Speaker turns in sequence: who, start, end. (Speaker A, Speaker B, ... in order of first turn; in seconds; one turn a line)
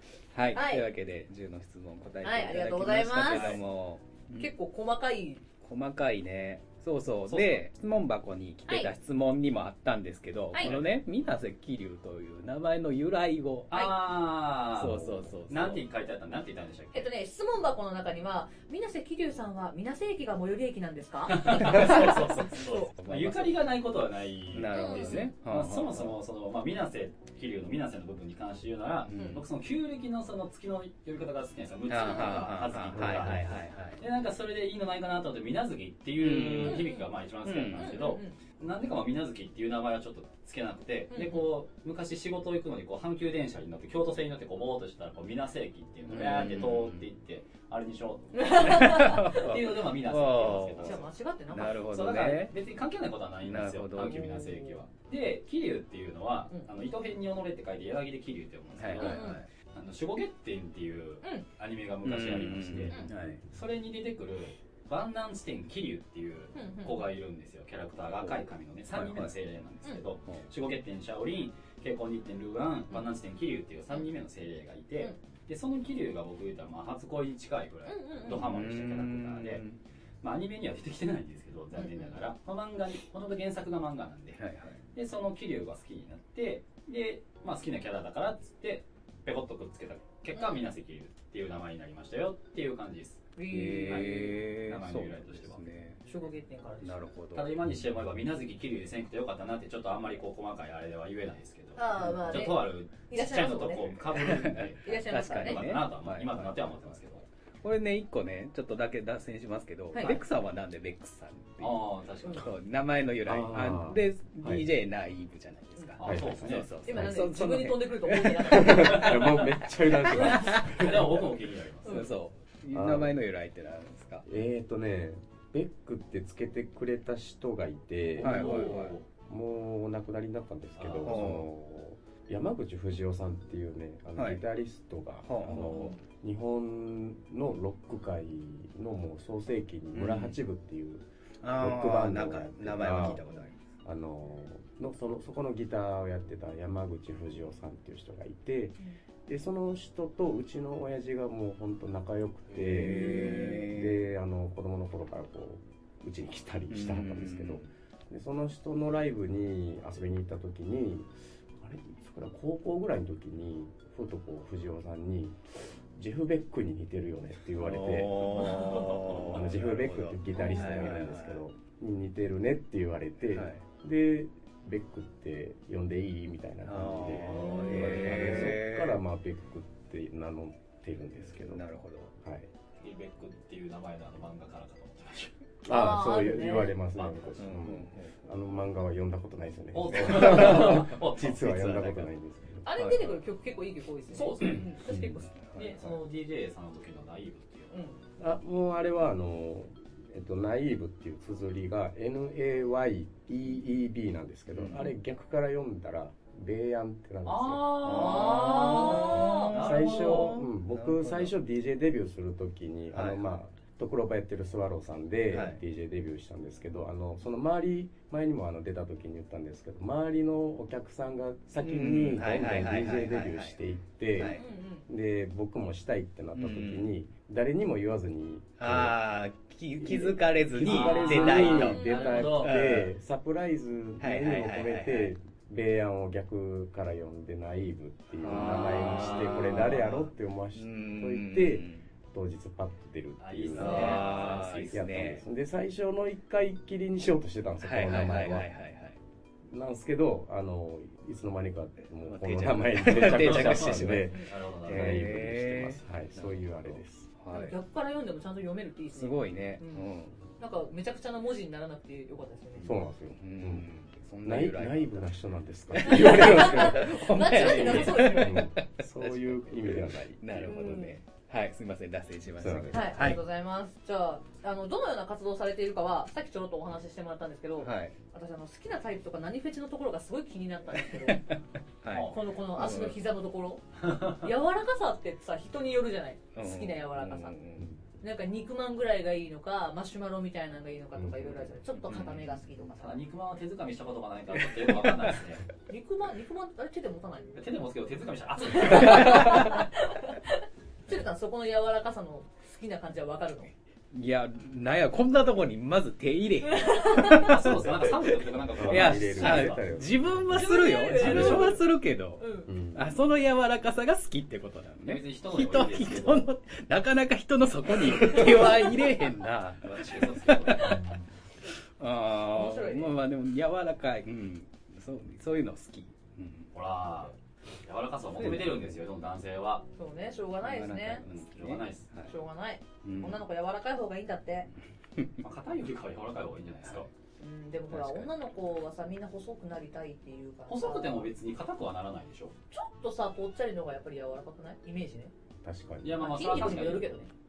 Speaker A: 0.3-4.5
Speaker B: 0.5-0.9
Speaker B: 2.2-3.5
Speaker C: 3.3-3.6
Speaker B: 4.3-5.4
Speaker A: 5.6-13.7
Speaker C: 7.3-7.6
Speaker B: 8.7-8.9
Speaker C: 10.6-10.9
Speaker C: 13.7-17.1
Speaker B: 13.7-14.0
Speaker A: 14.7-15.8
Speaker B: 16.9-22.9
Speaker C: 21.3-51.1
Speaker A: 21.7-22.0
Speaker A: 23.0-23.6
Speaker A: 24.5-26.1
Speaker B: 24.7-25.3
Speaker A: 29.1-29.4
Speaker B: 29.1-29.4
Speaker A: 31.9-34.0
Speaker B: 31.9-32.5
Speaker D: 33.0-33.4
Speaker A: 36.2-36.9
Speaker B: 36.6-38.4
Speaker A: 37.5-37.9
Speaker B: 41.1-41.5
Speaker A: 46.1-47.0
Speaker B: 46.2-46.5
Speaker B: 48.3-49.5
Speaker A: 48.6-52.5
Speaker B: 50.8-51.8
Speaker C: 51.6-79.6
Speaker A: 53.4-54.5
Speaker B: 54.0-54.8
Speaker A: 58.8-59.5
Speaker B: 59.0-59.4
Speaker A: 62.0-63.4
Speaker B: 66.5-67.0
Speaker A: 68.1-69.3
Speaker B: 77.8-78.4
Speaker A: 78.3-79.8
Speaker C: 80.2-84.4
Speaker B: 81.8-82.2
Speaker A: 84.4-84.8
Speaker C: 84.9-95.7
Speaker B: 90.3-90.6
Speaker B: 93.3-94.4
Speaker A: 93.5-96.0
Speaker B: 96.0-97.0
Speaker A: 96.8-97.5
Speaker C: 97.3-107.3
Speaker B: 101.8-104.0
Speaker A: 104.2-107.0
Speaker B: 104.8-105.7
Speaker A: 107.6-118.5
Speaker B: 109.9-110.2
Speaker C: 111.6-112.5
Speaker D: 113.2-114.7
Speaker C: 116.0-116.7
Speaker D: 116.0-117.2
Speaker B: 116.8-119.1
Speaker D: 118.4-121.2
Speaker C: 118.7-122.1
Speaker A: 120.0-120.9
Speaker B: 121.8-122.1
Speaker A: 121.8-124.2
Speaker D: 122.7-123.2
Speaker D: 124.2-143.2
Speaker C: 128.1-129.0
Speaker A: 128.2-128.9
Speaker C: 130.8-131.4
Speaker A: 131.0-131.5
Speaker A: 134.2-134.4
Speaker A: 135.2-135.8
Speaker B: 135.7-136.0
Speaker A: 139.9-140.3
Speaker A: 141.4-143.5
Speaker B: 143.0-143.5
Speaker D: 143.8-168.5
Speaker A: 152.5-153.9
Speaker B: 152.9-153.7
Speaker A: 156.7-157.7
Speaker A: 167.6-171.4
Speaker B: 168.4-168.9
Speaker D: 169.1-181.6
Speaker B: 170.3-171.0
Speaker A: 173.3-173.6
Speaker A: 176.7-179.0
Speaker B: 177.3-178.0
Speaker A: 181.4-182.1
Speaker D: 182.2-182.5
Speaker C: 182.8-185.3
Speaker D: 185.6-192.7
Speaker B: 185.6-186.7
Speaker C: 186.9-187.5
Speaker A: 187.4-188.3
Speaker C: 189.7-191.8
Speaker A: 190.1-192.1
Speaker B: 192.6-195.3
Speaker C: 194.1-194.7
Speaker A: 194.4-195.9
Speaker D: 194.8-195.2
Speaker C: 195.5-197.9
Speaker B: 197.7-198.0
Speaker D: 198.2-208.4
Speaker A: 204.5-204.9
Speaker C: 207.2-210.4
Speaker B: 207.8-209.5
Speaker A: 207.8-211.3
Speaker D: 209.5-229.0
Speaker A: 212.9-213.2
Speaker A: 215.3-215.6
Speaker A: 221.6-223.6
Speaker A: 224.2-224.4
Speaker B: 224.3-224.9
Speaker A: 226.3-226.9
Speaker A: 228.6-231.8
Speaker D: 229.8-248.5
Speaker C: 230.6-232.6
Speaker B: 230.9-232.3
Speaker A: 232.4-232.9
Speaker A: 234.0-235.1
Speaker A: 238.2-241.8
Speaker C: 238.2-239.8
Speaker C: 243.2-244.8
Speaker A: 243.5-245.2
Speaker B: 243.6-244.1
Speaker A: 247.6-249.0
Speaker D: 249.4-257.1
Speaker A: 252.0-257.6
Speaker C: 252.8-255.3
Speaker B: 257.3-262.8
Speaker A: 258.9-260.2
Speaker D: 262.6-263.7
Speaker A: 263.1-265.1
Speaker D: 264.2-270.8
Speaker A: 265.7-273.2
Speaker B: 265.8-268.5
Speaker B: 270.4-271.0
Speaker D: 272.4-273.2
Speaker B: 272.7-281.3
Speaker A: 277.6-277.9
Speaker A: 281.1-282.9
Speaker C: 281.9-282.2
Speaker B: 282.1-287.4
Speaker C: 283.8-284.2
Speaker A: 286.3-287.7
Speaker B: 288.0-293.0
Speaker D: 290.9-291.4
Speaker A: 291.8-292.3
Speaker C: 292.7-295.4
Speaker B: 295.7-297.5
Speaker C: 297.4-299.5
Speaker B: 298.4-303.5
Speaker A: 298.7-299.6
Speaker A: 303.9-307.9
Speaker B: 306.5-307.4
Speaker C: 306.9-309.7
Speaker D: 307.5-307.8
Speaker D: 308.5-311.4
Speaker A: 308.5-320.9
Speaker B: 310.3-311.6
Speaker C: 311.1-311.5
Speaker B: 312.2-312.5
Speaker D: 312.5-312.9
Speaker C: 314.8-316.3
Speaker C: 318.1-318.7
Speaker C: 319.6-320.9
Speaker D: 320.7-321.0
Speaker A: 321.8-326.5
Speaker B: 322.3-322.9
Speaker C: 326.5-327.1
Speaker C: 327.6-329.7
Speaker A: 328.2-328.8
Speaker B: 329.8-331.0
Speaker A: 330.4-332.1
Speaker C: 331.1-331.9
Speaker B: 332.0-334.5
Speaker A: 332.8-333.2
Speaker C: 335.2-336.9
Speaker B: 337.2-341.1
Speaker A: 337.7-338.1
Speaker C: 340.5-342.3
Speaker B: 342.5-345.1
Speaker D: 345.4-346.6
Speaker C: 345.8-346.9
Speaker B: 346.0-347.1